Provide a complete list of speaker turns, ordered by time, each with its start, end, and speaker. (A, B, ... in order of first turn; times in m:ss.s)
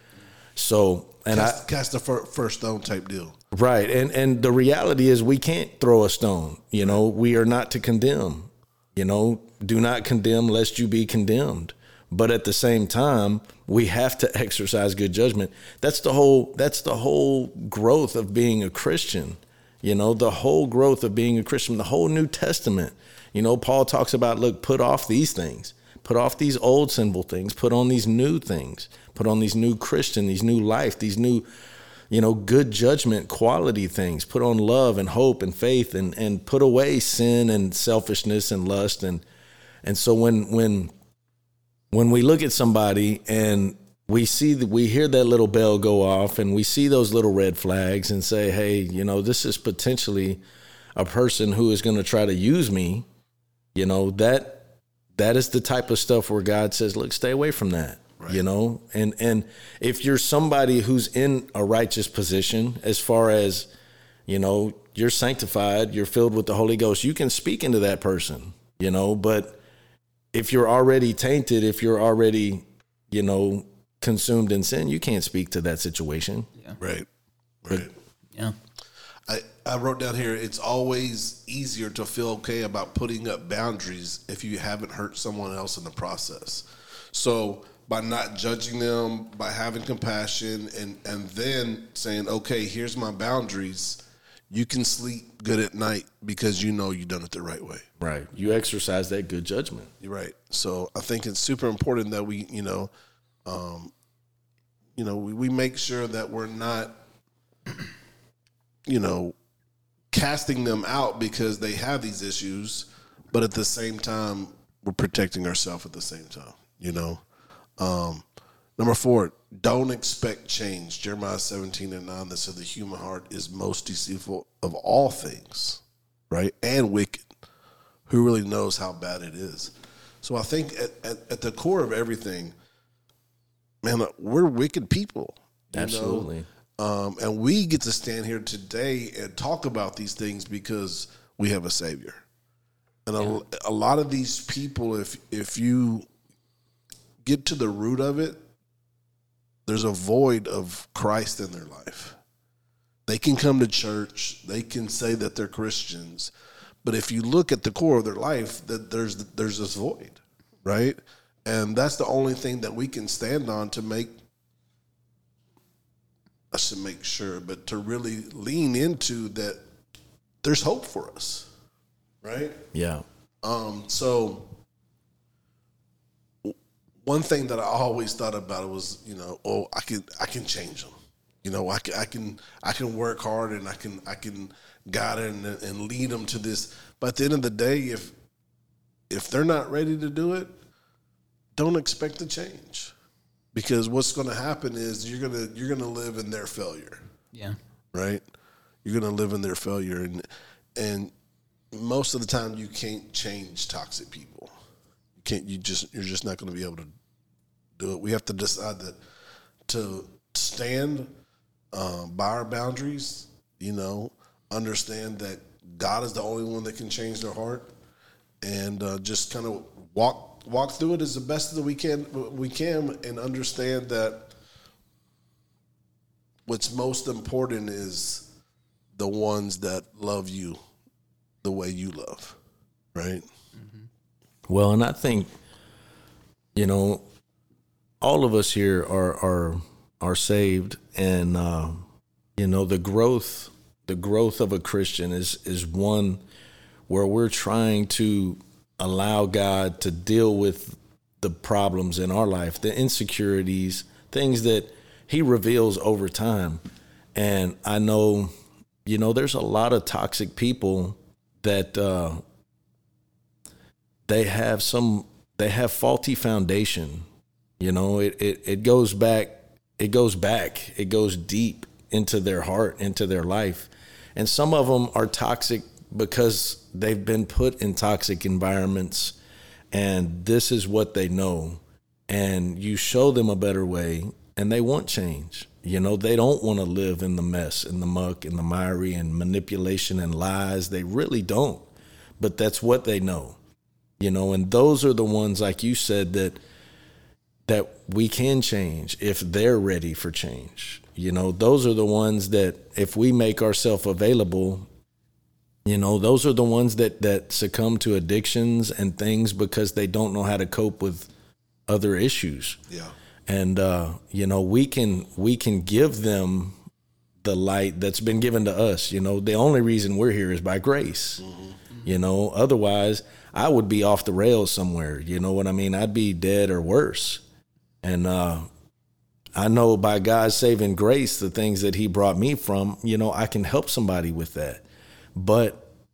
0:00.6-0:01.6 A
0:01.3-0:03.4 B
0:03.5-0:31.5 A
0:32.1-0:39.2 A
0:39.8-0:40.9 A
0:41.9-0:50.4 A
0:51.0-0:53.1 A
0:53.8-1:03.7 A
1:04.3-1:09.6 A
1:10.3-1:16.5 A
1:16.8-1:17.1 B
1:17.6-1:17.9 B
1:19.3-1:37.9 B
1:38.0-1:39.9 A
1:40.0-1:42.9 B
1:43.5-1:43.9 B
1:45.0-1:47.0 B
1:48.9-1:49.4 B
1:50.1-1:57.2 B
1:57.8-1:58.2 B
1:58.8-2:07.3 B
2:08.1-2:12.5 B
2:13.8-2:22.2 B
2:15.7-2:16.5 A
2:23.1-2:26.1 B
2:27.2-2:28.4 B
2:29.7-2:32.2 B
2:33.1-2:36.3 B
2:36.8-2:44.1 B
2:46.5-2:49.6 B
2:50.4-2:51.5 B
2:52.2-2:52.6 B
2:52.7-2:53.0 A
2:53.4-2:54.5 B
2:56.4-3:00.9 B
3:01.4-3:08.1 B
3:09.1-3:10.5 B
3:11.6-3:12.9 B
3:13.5-3:17.0 B
3:17.9-3:18.2 B
3:18.8-3:21.1 B
3:21.7-3:24.5 B
3:25.2-3:26.9 B
3:27.8-3:29.0 B
3:29.7-3:31.1 B
3:31.7-3:37.7 B
3:38.4-3:44.3 B
3:46.5-3:48.3 B
3:49.0-3:50.6 B
3:51.4-3:52.4 B
3:53.0-3:53.2 B
3:54.5-3:55.3 A
3:56.6-3:57.0 A
3:58.0-4:01.9 A
4:02.4-4:06.2 A
4:06.9-4:16.6 A
4:17.2-4:18.3 A
4:18.8-4:22.2 A
4:24.1-4:27.1 A
4:27.6-4:39.2 A
4:39.7-4:51.6 A
4:52.2-4:53.4 A
4:54.0-4:56.4 A
4:57.5-5:04.7 A
5:05.6-5:11.1 A
5:11.7-5:12.6 A
5:13.3-5:16.6 A
5:17.2-5:21.2 A
5:21.2-5:21.6 B
5:21.8-5:27.2 A
5:27.8-5:28.5 A
5:29.4-5:34.6 A
5:35.2-5:35.7 A